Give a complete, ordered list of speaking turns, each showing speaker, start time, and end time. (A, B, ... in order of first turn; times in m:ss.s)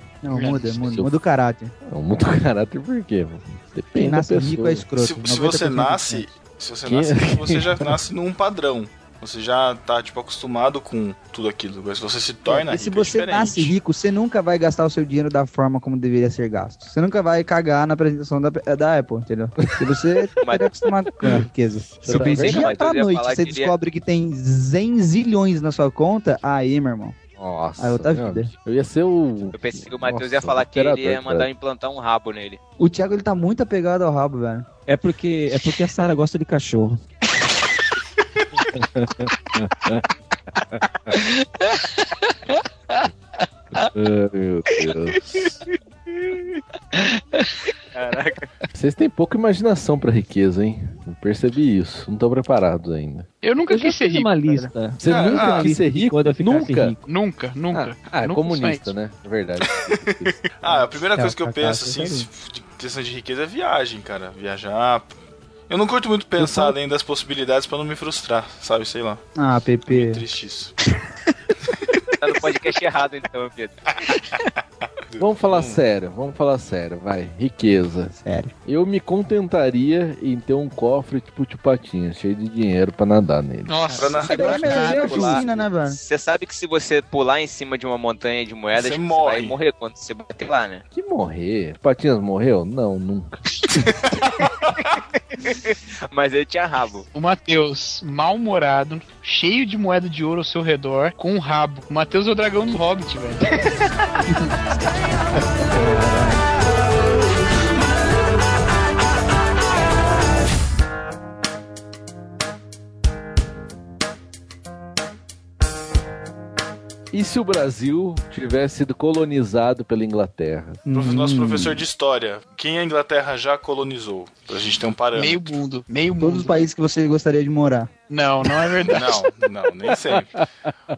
0:00.2-0:01.7 A
0:00.3-0:00.6 B
0:00.8-0:01.1 C
0:01.8-0:04.9 C
0:04.0-0:06.3 A
0:05.0-0:13.7 D
0:06.8-0:08.0 C
0:12.4-0:27.2 A
0:20.4-0:20.7 E
0:22.0-0:22.7 C
0:22.1-0:23.7 E
0:27.4-0:31.5 C
0:27.8-0:28.5 A
0:29.5-0:32.6 E
0:32.8-0:34.7 A
0:34.9-0:37.0 F
0:38.7-0:40.0 C
0:41.1-0:43.1 B
0:43.9-0:45.4 C
0:46.9-0:47.5 B
0:47.9-0:48.5 E
0:48.7-0:53.3 C
0:53.4-0:54.7 B
0:53.7-0:57.0 F
0:55.0-0:56.9 C
0:55.0-0:55.6 D
0:55.3-0:55.6 B
0:57.1-0:58.9 B
0:57.7-1:00.4 C
0:59.7-1:05.1 D
1:00.7-1:02.3 A
1:05.7-1:09.2 D
1:06.4-1:06.7 A
1:09.4-1:10.2 A
1:09.9-1:10.7 D
1:12.2-1:13.8 E
1:15.1-1:15.8 D
1:15.2-1:23.9 C
1:18.2-1:18.5 A
1:23.7-1:25.4 B
1:23.9-1:25.0 D
1:24.3-1:30.8 E
1:24.3-1:26.0 A
1:28.7-1:29.6 D
1:30.9-1:33.4 C
1:34.0-1:34.9 D
1:34.8-1:37.0 E
1:37.1-1:43.6 B
1:45.8-1:46.3 F
1:57.1-2:00.8 C
2:00.8-2:01.8 A
2:00.9-2:05.6 D
2:05.1-2:06.6 B
2:06.2-2:07.9 A
2:08.1-2:09.2 B
2:08.8-2:10.3 D
2:09.8-2:10.7 C